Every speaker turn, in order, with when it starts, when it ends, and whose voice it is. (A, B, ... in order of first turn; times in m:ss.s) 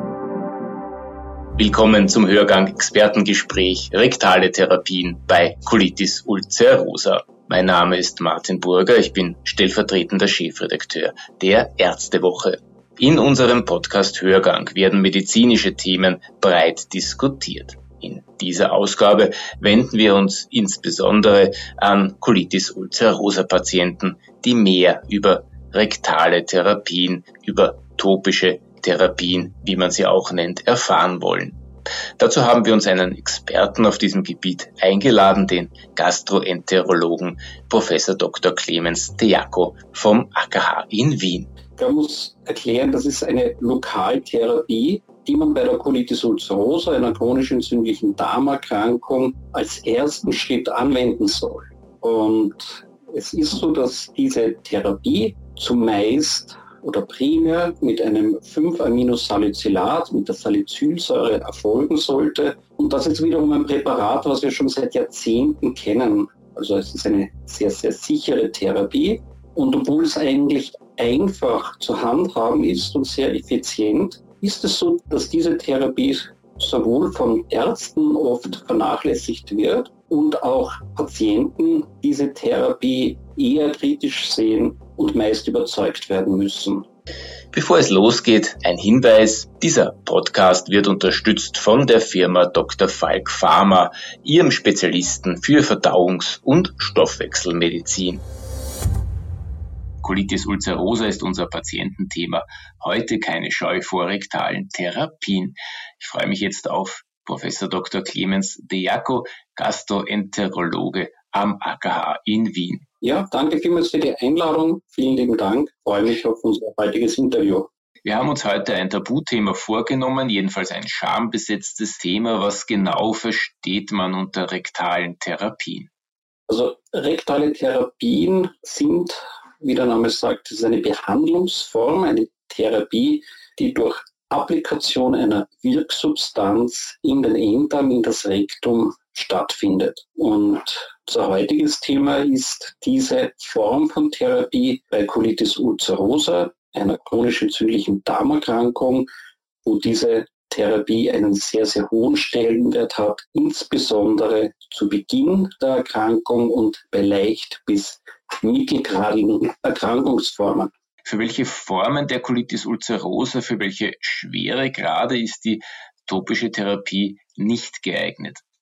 0:01.6-0:31.6 A
0:32.2-0:41.5 A
0:41.8-1:26.8 B
1:27.5-1:38.2 A
1:40.0-1:52.8 A
1:53.0-1:57.7 B
1:58.0-2:05.9 A
2:06.5-2:29.1 B
2:29.6-2:40.7 B
2:41.1-2:48.4 A